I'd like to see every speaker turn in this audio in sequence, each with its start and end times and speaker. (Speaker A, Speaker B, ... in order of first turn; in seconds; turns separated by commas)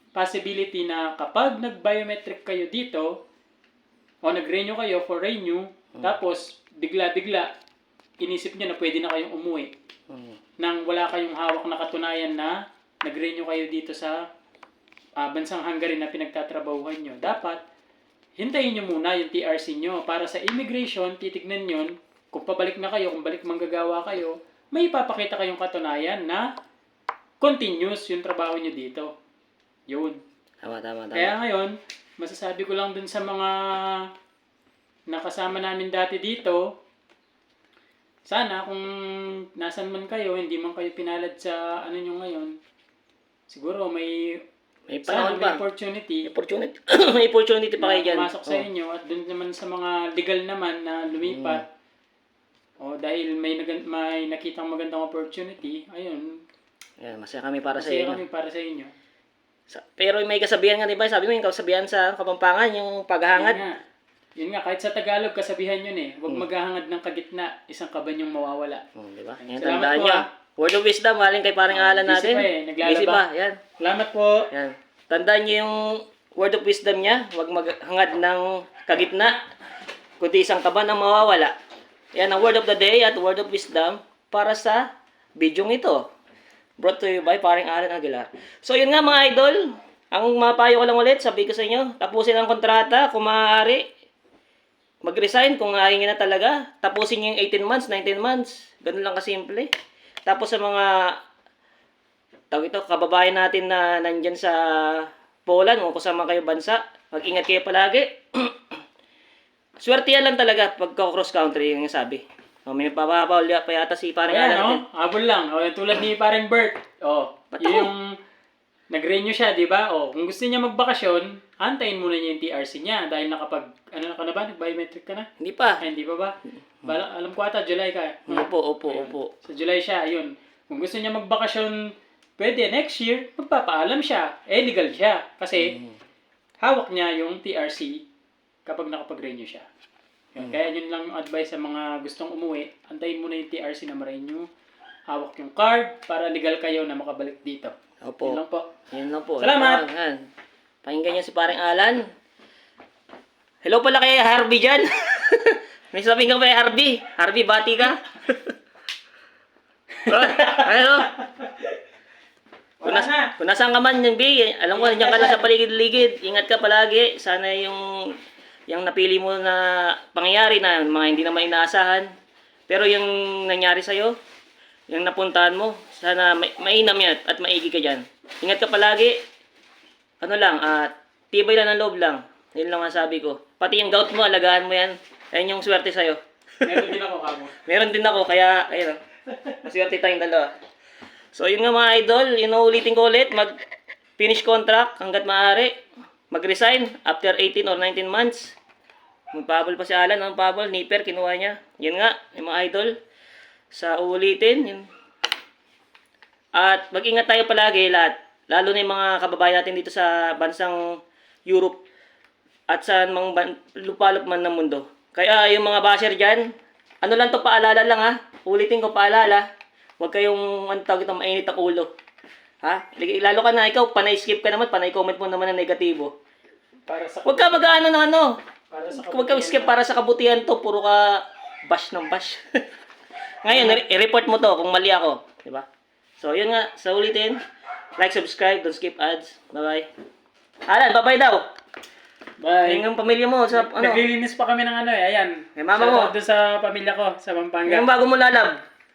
Speaker A: 0.1-3.1, Speaker A: 4.2-7.5, Speaker A: 8.2-9.7, Speaker B: 10.1-10.4, Speaker A: 10.6-14.2, Speaker A: 15.2-17.6, Speaker A: 18.4-26.5, Speaker A: 27.4-29.1, Speaker A: 29.9-30.2, Speaker B: 30.6-31.4, Speaker A: 31.1-34.1, Speaker A: 35.1-36.7, Speaker A: 38.3-42.5, Speaker A: 43.5-44.4, Speaker B: 44.9-45.6, Speaker A: 45.1-46.3, Speaker B: 46.3-48.6, Speaker A: 47.8-51.7, Speaker B: 51.2-51.6, Speaker A: 52.8-56.3, Speaker B: 57.0-58.2, Speaker A: 57.8-58.9, Speaker B: 59.7-63.6, Speaker A: 63.3-63.8, Speaker A: 64.4-68.8, Speaker B: 69.0-73.6, Speaker A: 69.4-70.2, Speaker A: 71.7-73.2, Speaker A: 73.8-74.5, Speaker B: 74.5-79.4, Speaker B: 80.2-81.5, Speaker B: 82.2-86.0, Speaker B: 86.8-93.9, Speaker B: 95.0-99.7, Speaker B: 100.3-101.2, Speaker B: 102.5-108.6, Speaker B: 109.8-114.8, Speaker A: 114.3-118.1, Speaker B: 117.5-117.9, Speaker A: 118.9-125.3, Speaker B: 125.4-125.8, Speaker A: 125.8-131.8, Speaker B: 128.3-129.3, Speaker A: 132.4-135.8, Speaker B: 135.6-135.9, Speaker A: 136.6-138.0, Speaker A: 138.7-139.7, Speaker A: 140.4-144.5, Speaker A: 145.1-148.7, Speaker B: 148.0-148.4, Speaker B: 148.9-150.2, Speaker A: 149.4-149.8, Speaker B: 150.8-152.1, Speaker B: 153.6-158.5, Speaker B: 160.1-161.1, Speaker A: 160.2-160.7, Speaker A: 162.8-163.3, Speaker B: 162.8-168.2, Speaker A: 164.7-165.4, Speaker B: 168.7-172.1, Speaker B: 172.7-174.2, Speaker B: 174.9-179.2, Speaker B: 180.2-186.8, Speaker A: 186.6-187.6, Speaker B: 187.7-189.0, Speaker B: 189.5-190.5, Speaker B: 191.3-193.5, Speaker B: 194.2-195.8, Speaker B: 196.3-198.6, Speaker B: 199.3-202.9, Speaker B: 203.7-204.9, Speaker B: 206.6-211.8, Speaker B: 212.7-216.5, Speaker B: 217.0-219.5, Speaker B: 220.0-221.9, Speaker B: 222.6-226.2, Speaker A: 226.9-227.7, Speaker B: 227.2-228.4, Speaker A: 228.7-229.8, Speaker B: 228.9-232.4, Speaker B: 233.4-235.7, Speaker A: 233.5-233.8, Speaker B: 236.2-237.4, Speaker B: 238.0-239.9, Speaker B: 240.7-241.5, Speaker A: 242.4-242.8, Speaker B: 242.7-244.0, Speaker A: 243.5-247.9, Speaker B: 245.6-246.1, Speaker B: 247.7-248.6